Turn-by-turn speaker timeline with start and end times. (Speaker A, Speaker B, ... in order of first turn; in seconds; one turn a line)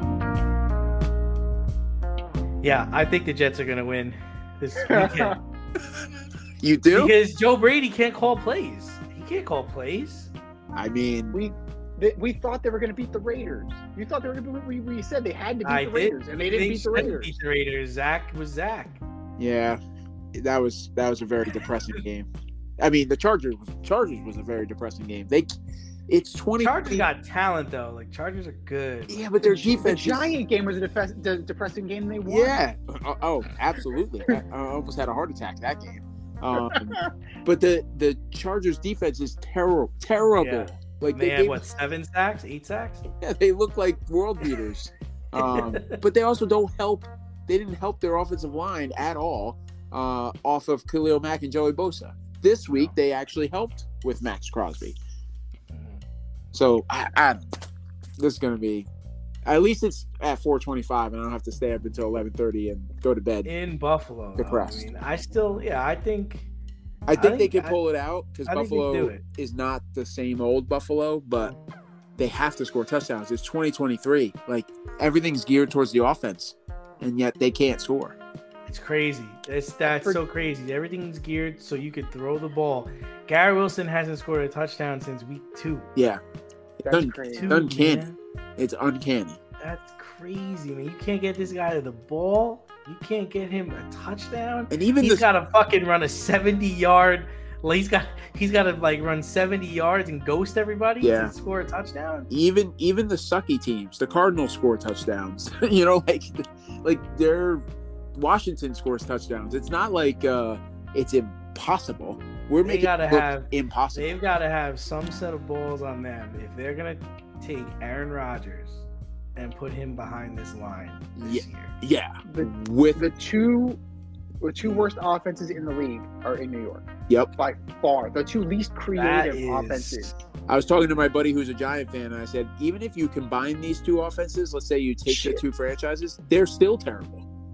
Speaker A: 2.6-5.4
Speaker B: 4.9-5.4
Speaker C: 6.6-7.1
Speaker A: 6.9-10.3
Speaker C: 10.7-11.4
Speaker B: 11.3-17.4
Speaker A: 15.7-19.0
Speaker C: 19.4-19.8
Speaker C: 20.4-22.3
Speaker C: 22.8-25.5
Speaker C: 26.1-27.1
Speaker A: 26.6-29.2
Speaker C: 29.1-30.4
Speaker B: 29.4-32.6
Speaker C: 32.2-41.6
Speaker A: 40.3-43.0
Speaker C: 43.2-55.0
Speaker A: 45.4-46.0
Speaker A: 52.7-53.0
Speaker A: 55.7-56.0
Speaker C: 56.5-57.6
Speaker C: 58.2-58.9
Speaker C: 59.5-63.5
Speaker A: 63.5-66.5
Speaker C: 64.4-64.9
Speaker C: 67.1-71.5
Speaker A: 67.1-67.8
Speaker A: 68.5-69.2
Speaker C: 72.2-78.2
Speaker A: 78.7-85.9
Speaker B: 79.8-80.2
Speaker C: 86.0-86.2
Speaker B: 86.8-87.6
Speaker C: 86.9-88.0
Speaker A: 87.3-88.2
Speaker C: 88.6-89.4
Speaker A: 89.6-102.3
Speaker C: 94.7-95.3
Speaker C: 101.0-101.3
Speaker C: 102.3-107.6
Speaker C: 108.2-114.2
Speaker A: 112.6-118.8
Speaker A: 119.4-121.7
Speaker C: 121.2-123.0
Speaker B: 122.3-123.8
Speaker B: 124.4-130.1
Speaker A: 128.9-130.1
Speaker C: 130.5-137.3
Speaker B: 135.1-135.4